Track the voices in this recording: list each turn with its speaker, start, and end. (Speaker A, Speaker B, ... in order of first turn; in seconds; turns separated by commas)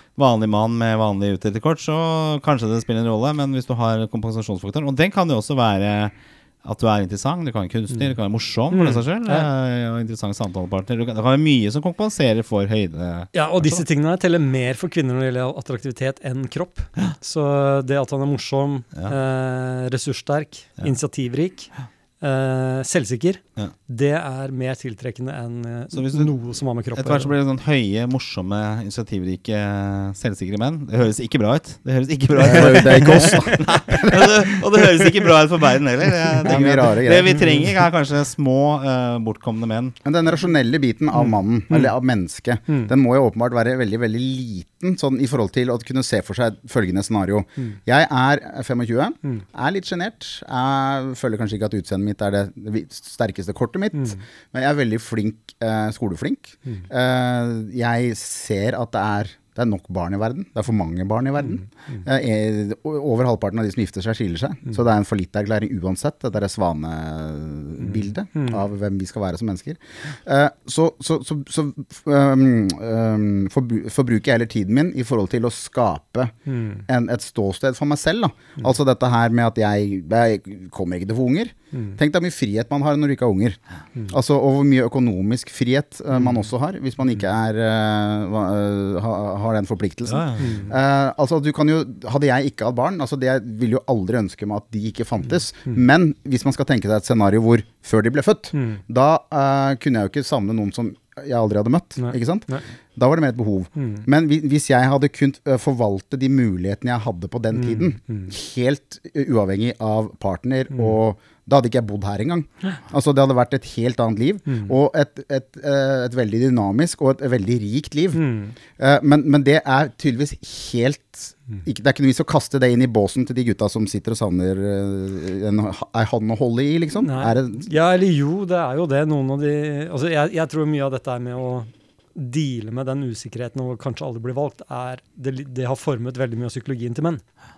Speaker A: 0.1-13.8, Speaker B: 8.7-9.5, Speaker B: 13.3-27.3, Speaker A: 25.9-26.3, Speaker A: 26.9-40.0, Speaker C: 32.4-34.3, Speaker C: 36.4-37.4, Speaker C: 40.0-76.3, Speaker B: 41.2-41.9, Speaker B: 76.5-76.8, Speaker C: 76.9-118.2, Speaker B: 81.7-82.0, Speaker A: 90.1-90.7, Speaker B: 90.4-90.7, Speaker B: 98.5-98.8, Speaker B: 102.0-102.7, Speaker B: 103.8-104.1, Speaker B: 107.5-108.3, Speaker B: 118.2-118.6, Speaker C: 118.8-127.7, Speaker B: 127.0-137.2